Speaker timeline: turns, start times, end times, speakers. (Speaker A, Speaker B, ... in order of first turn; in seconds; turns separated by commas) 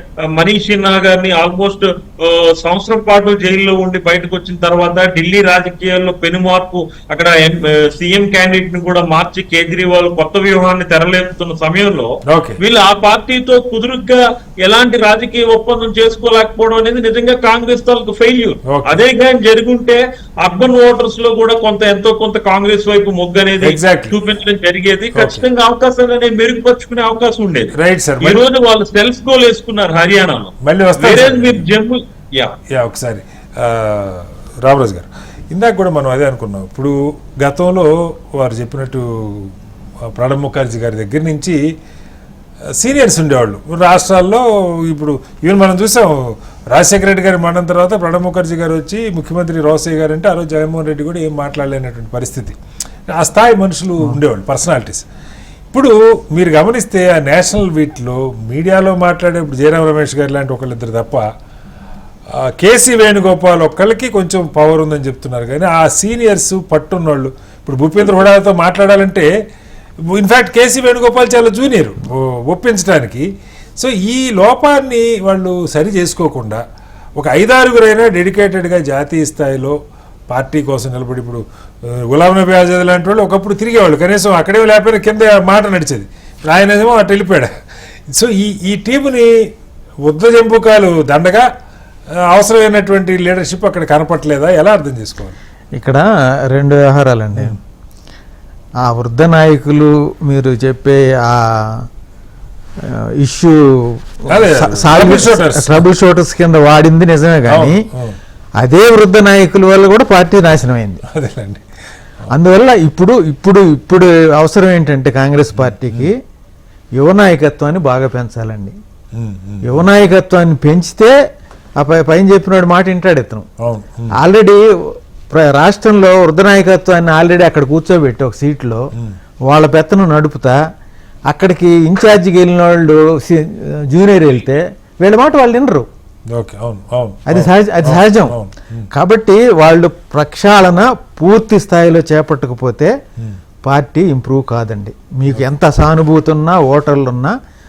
Speaker A: 0.3-32.5, Speaker B: 12.3-12.6, Speaker B: 18.7-19.0, Speaker B: 23.6-24.1, Speaker B: 25.1-25.4, Speaker B: 27.8-28.4, Speaker B: 30.6-31.6, Speaker B: 32.7-39.5, Speaker B: 40.1-41.6, Speaker B: 42.8-46.1, Speaker B: 46.7-52.6, Speaker B: 53.1-55.0, Speaker B: 55.7-61.2, Speaker B: 62.3-69.3, Speaker B: 70.1-73.3, Speaker B: 73.8-76.6, Speaker B: 77.2-79.8, Speaker B: 80.3-87.5, Speaker B: 88.1-89.3, Speaker B: 90.1-91.5, Speaker B: 92.3-95.3, Speaker C: 95.8-97.6, Speaker C: 98.8-101.8, Speaker C: 102.9-107.8, Speaker B: 104.3-105.8, Speaker B: 107.5-108.2, Speaker C: 108.6-111.0, Speaker B: 111.1-111.6, Speaker C: 112.3-116.2, Speaker B: 115.5-116.1, Speaker C: 117.0-118.7, Speaker B: 119.1-119.8, Speaker C: 119.6-121.1, Speaker C: 121.8-123.5, Speaker B: 123.6-124.1, Speaker C: 124.2-128.8, Speaker C: 129.5-130.6, Speaker C: 131.3-135.9, Speaker B: 136.3-138.9, Speaker C: 137.3-138.4, Speaker C: 138.9-142.9, Speaker C: 143.7-147.3